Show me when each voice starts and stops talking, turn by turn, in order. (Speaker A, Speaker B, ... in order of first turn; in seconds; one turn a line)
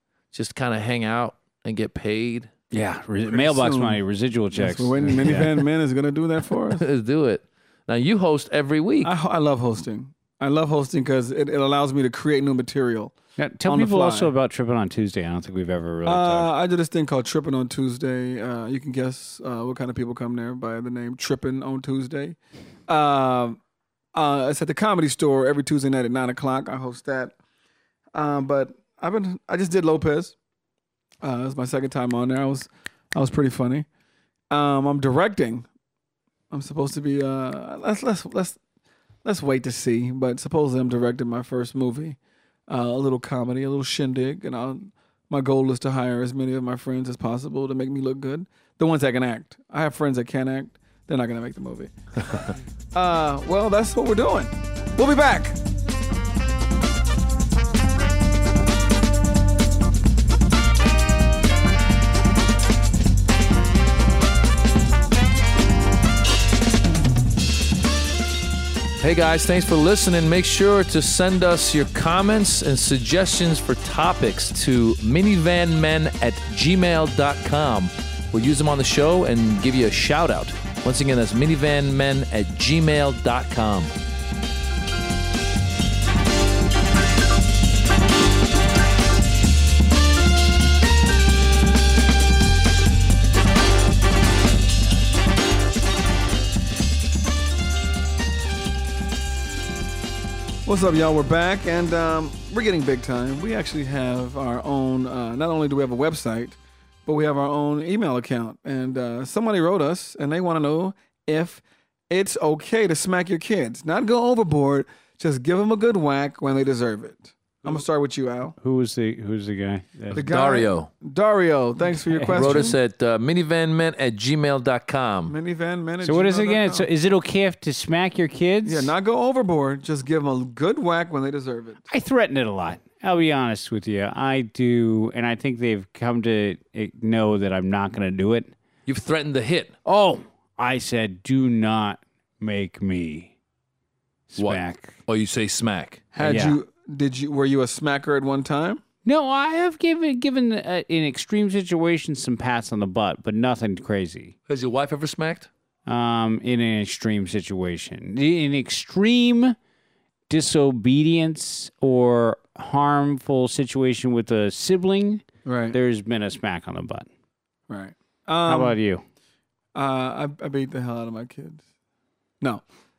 Speaker A: 0.3-2.5
Speaker B: 2.7-5.6
Speaker C: 3.3-4.0
Speaker C: 4.5-6.8
Speaker A: 6.7-9.1
Speaker C: 9.0-14.3
Speaker B: 13.4-16.5
Speaker C: 16.1-22.4
Speaker C: 22.9-23.6
Speaker C: 24.1-27.3
Speaker C: 28.1-30.4
Speaker C: 31.2-33.9
Speaker C: 34.5-35.6
Speaker C: 36.5-38.6
Speaker C: 39.2-55.6
Speaker A: 69.0-83.9
Speaker C: 100.7-118.5
Speaker B: 118.6-120.2
Speaker C: 120.1-122.8
Speaker A: 120.1-120.9
Speaker B: 121.9-122.7
Speaker A: 122.3-125.3
Speaker C: 125.3-126.9
Speaker B: 126.0-128.9
Speaker C: 128.6-131.9
Speaker B: 131.9-138.5
Speaker A: 138.8-139.7
Speaker B: 139.8-143.3
Speaker B: 144.3-145.0
Speaker A: 144.4-146.0
Speaker C: 146.1-148.8
Speaker B: 146.2-146.6
Speaker B: 149.0-154.3
Speaker A: 154.5-155.5
Speaker B: 155.9-159.6
Speaker B: 160.3-167.1
Speaker C: 165.4-165.8
Speaker C: 167.7-168.8
Speaker B: 168.4-169.0
Speaker C: 169.7-171.6